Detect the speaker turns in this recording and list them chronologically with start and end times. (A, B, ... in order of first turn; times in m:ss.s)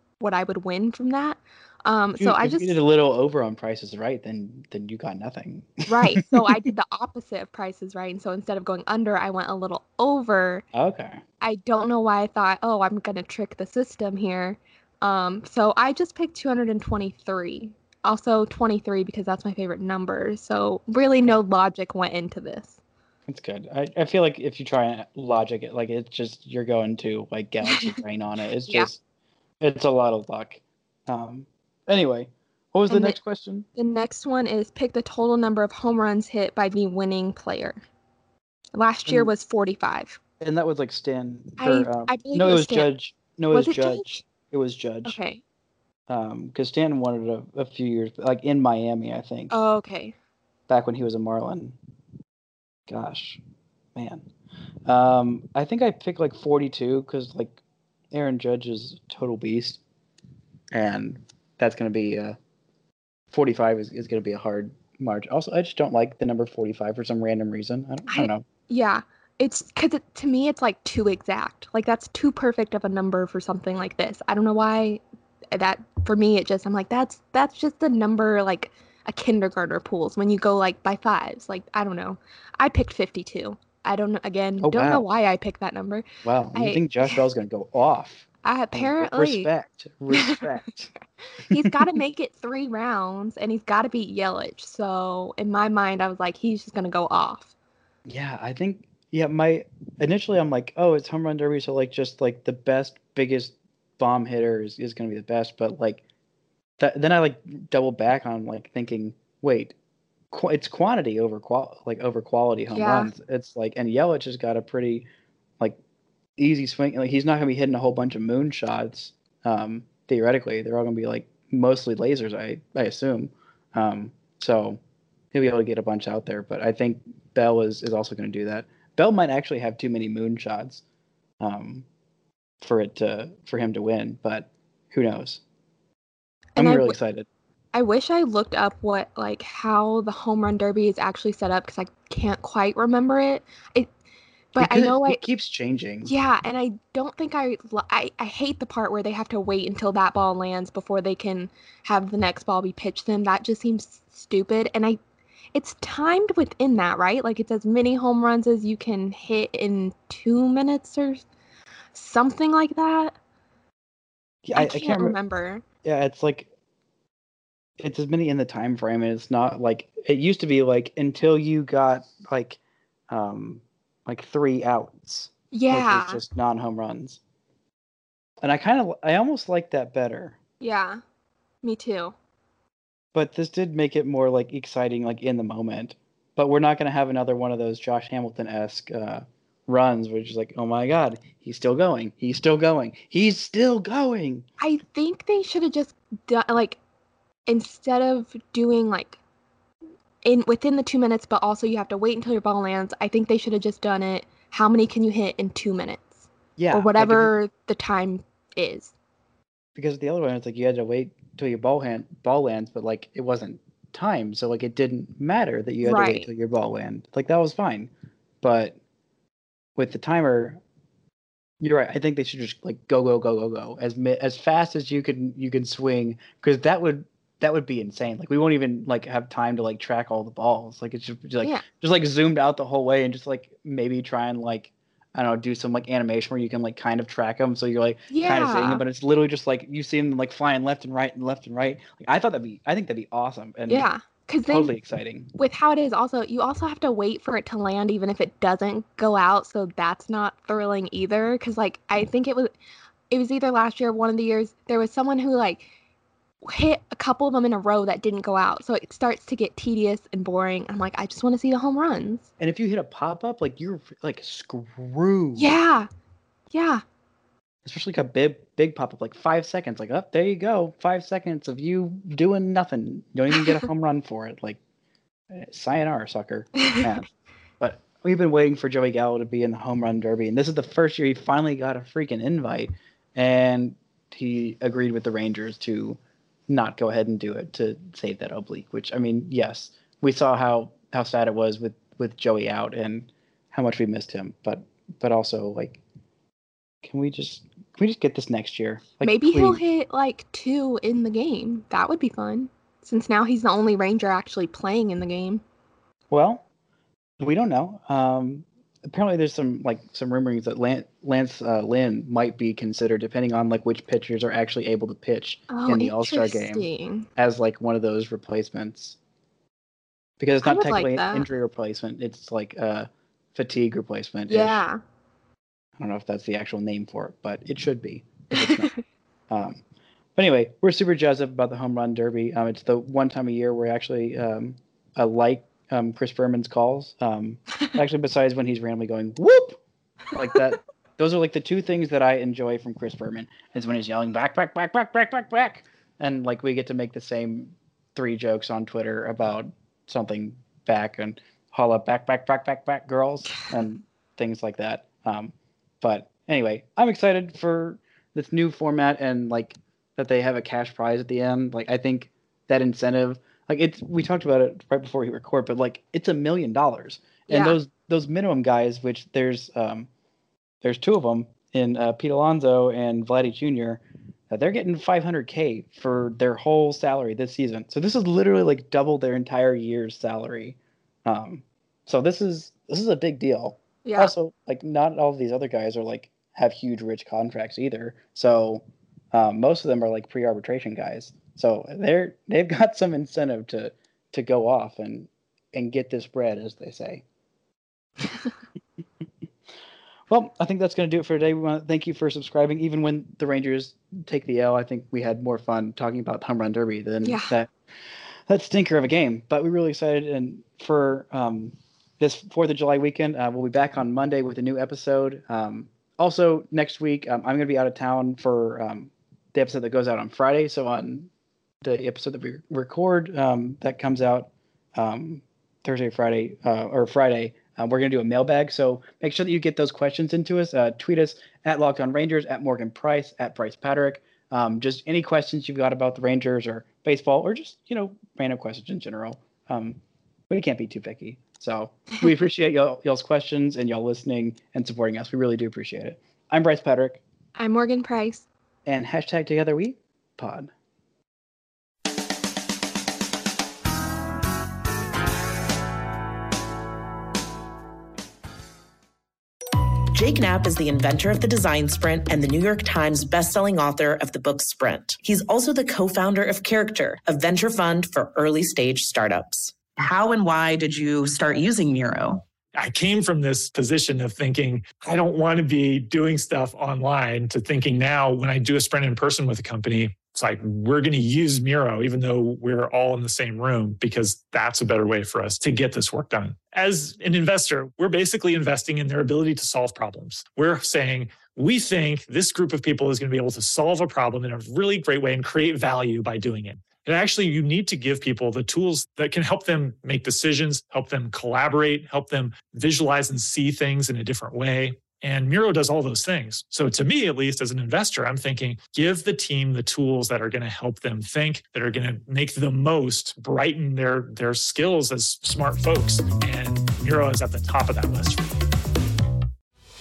0:00.2-0:02.8 A
0:02.2-0:06.7 B
0:05.9-0:10.6 A
0:10.7-0:11.2 B
0:11.4-0:22.8 A
0:23.3-0:29.0 B
0:27.6-0:28.0 A
0:29.6-0:33.7 B
0:32.9-0:33.2 A
0:33.8-0:37.8 A
0:38.8-0:40.2 A
0:39.1-0:39.3 B
0:40.4-0:45.2 B
0:41.6-0:42.9 A
0:43.5-0:44.2 A
0:45.0-0:45.4 A
0:46.1-0:49.5 B
0:49.5-0:50.1 A
0:50.7-0:51.8 B
0:52.9-0:53.4 B
0:54.0-0:54.3 B
0:54.9-0:57.6 B
0:58.1-0:59.8 B
1:00.7-1:02.4 B
1:03.3-1:08.4 B
1:08.1-1:15.0 A
1:15.5-1:27.2 A
1:24.6-1:25.0 B
1:26.2-1:30.9 B
1:28.4-1:29.5 A
1:30.1-1:30.4 A
1:31.4-1:37.5 A
1:31.5-1:32.0 B
1:38.1-1:46.0 B
1:46.8-1:49.8 B
1:50.3-1:55.1 B
1:52.7-1:53.1 A
1:56.4-2:04.8 B
2:05.3-2:10.8 B
2:11.4-2:11.9 B
2:12.6-2:15.4 B
2:16.6-2:17.0 A
2:16.6-2:17.3 B
2:17.7-2:23.9 A
2:24.5-2:25.2 A
2:24.6-2:26.1 B
2:26.0-2:35.0 A
2:35.6-2:41.2 A
2:41.9-2:43.2 A
2:44.4-2:45.2 B
2:44.6-2:45.6 A
2:45.8-2:46.5 B
2:47.8-2:57.2 B
2:55.5-2:56.2 A
2:58.4-3:00.4 B
3:00.6-3:01.0 A
3:01.6-3:02.2 A
3:03.1-3:14.5 B
3:14.6-3:16.8 A
3:17.5-3:19.2 A
3:20.2-3:28.9 A
3:26.6-3:27.3 B
3:29.8-3:37.9 B
3:35.8-3:36.3 A
3:38.4-3:38.8 B
3:39.8-3:40.6 B
3:41.6-4:03.9 B
3:58.1-3:58.8 A
4:03.7-4:04.7 A
4:04.5-4:05.3 B
4:05.4-4:12.5 A
4:13.1-4:15.7 A
4:16.4-4:22.3 A
4:22.4-4:25.5 B
4:25.4-4:25.9 A
4:26.5-4:26.8 A
4:27.6-4:34.6 B
4:35.3-4:55.8 B
4:56.8-4:59.6 B
4:59.0-5:05.4 A
5:06.1-5:06.4 B
5:07.2-5:19.0 B
5:15.5-5:17.1 A
5:20.2-5:24.6 B
5:20.4-5:21.3 A
5:24.3-5:24.8 A
5:25.8-5:28.7 B
5:29.3-5:29.6 B
5:30.2-5:39.6 B
5:40.1-6:09.9 B
6:07.3-6:07.6 A
6:10.6-6:37.0 B
6:23.8-6:24.1 A
6:40.1-6:47.5 B
6:47.0-6:47.3 A
6:48.3-7:01.1 B
7:01.6-7:27.0 B
7:27.4-7:28.3 A
7:28.7-7:30.5 B
7:39.9-7:52.2 C
7:52.6-8:38.2 D